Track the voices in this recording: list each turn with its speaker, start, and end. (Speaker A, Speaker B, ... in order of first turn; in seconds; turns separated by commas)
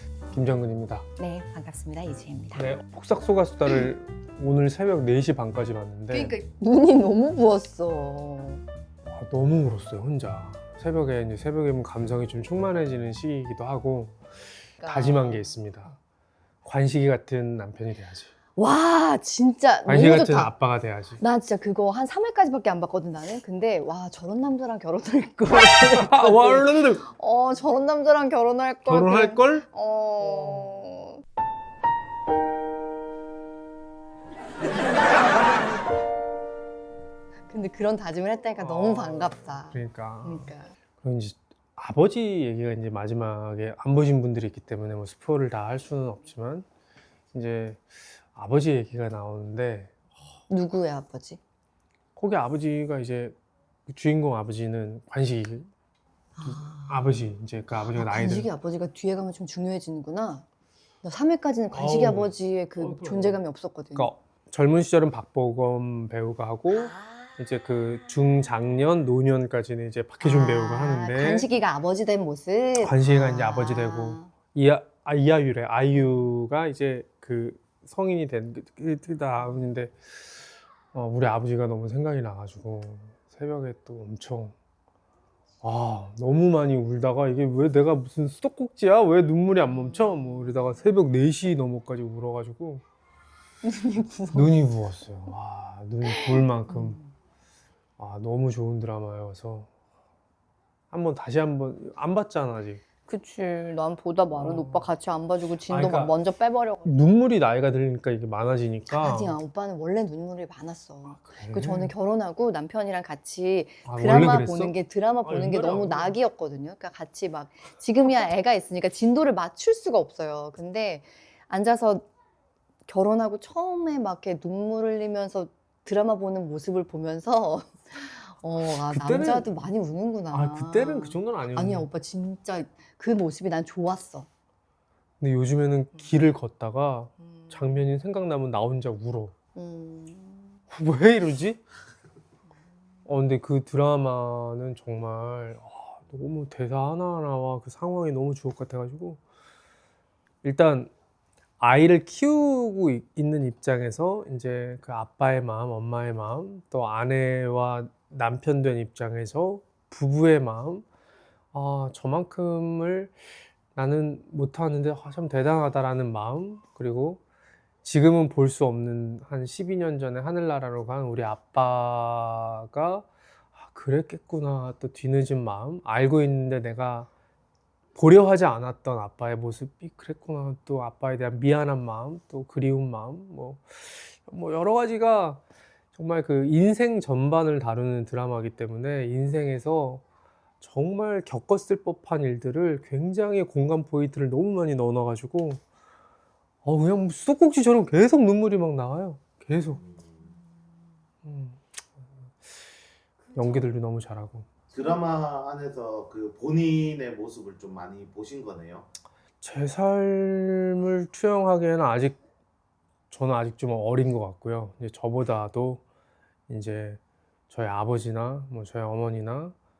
Speaker A: 0.3-1.0, Speaker B: 1.2-2.7, Speaker A: 2.5-6.3, Speaker B: 6.1-8.6, Speaker A: 9.1-14.2, Speaker B: 14.8-15.6, Speaker A: 14.8-15.9, Speaker A: 16.6-18.3, Speaker B: 18.6-20.5, Speaker A: 19.9-21.2, Speaker B: 21.2-31.2, Speaker A: 25.5-27.0, Speaker A: 28.8-29.6, Speaker A: 30.2-30.7, Speaker B: 37.5-40.7, Speaker A: 38.6-46.6, Speaker A: 47.3-50.1, Speaker B: 50.5-51.4, Speaker A: 52.1-53.3, Speaker A: 53.9-55.7, Speaker B: 56.4-57.2, Speaker A: 56.4-58.5, Speaker B: 57.8-60.4, Speaker B: 61.0-64.1, Speaker A: 61.7-63.4, Speaker A: 64.0-71.5, Speaker B: 66.7-67.4, Speaker B: 70.2-74.3, Speaker A: 72.8-80.4, Speaker A: 80.9-84.5, Speaker A: 85.6-92.8, Speaker B: 89.7-90.7, Speaker B: 93.6-94.6, Speaker A: 94.3-97.0, Speaker B: 96.0-97.1, Speaker A: 98.0-99.7, Speaker A: 100.9-102.8, Speaker B: 103.0-107.0, Speaker A: 104.3-104.9, Speaker A: 105.7-106.1, Speaker A: 106.8-109.4, Speaker B: 108.9-122.1, Speaker A: 111.1-111.9, Speaker A: 113.8-116.2, Speaker B: 122.9-134.3, Speaker A: 128.6-129.5, Speaker A: 130.3-131.9, Speaker A: 135.2-139.3, Speaker B: 135.9-136.2, Speaker B: 137.2-137.8, Speaker B: 139.5-140.6, Speaker A: 140.7-141.6, Speaker A: 143.1-149.2, Speaker A: 150.4-150.9, Speaker A: 151.6-160.8, Speaker A: 161.5-163.2, Speaker A: 163.7-167.2, Speaker A: 167.8-177.1, Speaker A: 177.9-185.4, Speaker A: 185.9-190.0, Speaker A: 190.6-195.6, Speaker A: 196.6-199.8, Speaker A: 201.2-201.7, Speaker A: 203.3-204.5, Speaker C: 204.7-208.8, Speaker A: 209.4-212.2, Speaker A: 213.1-215.8, Speaker A: 216.5-219.5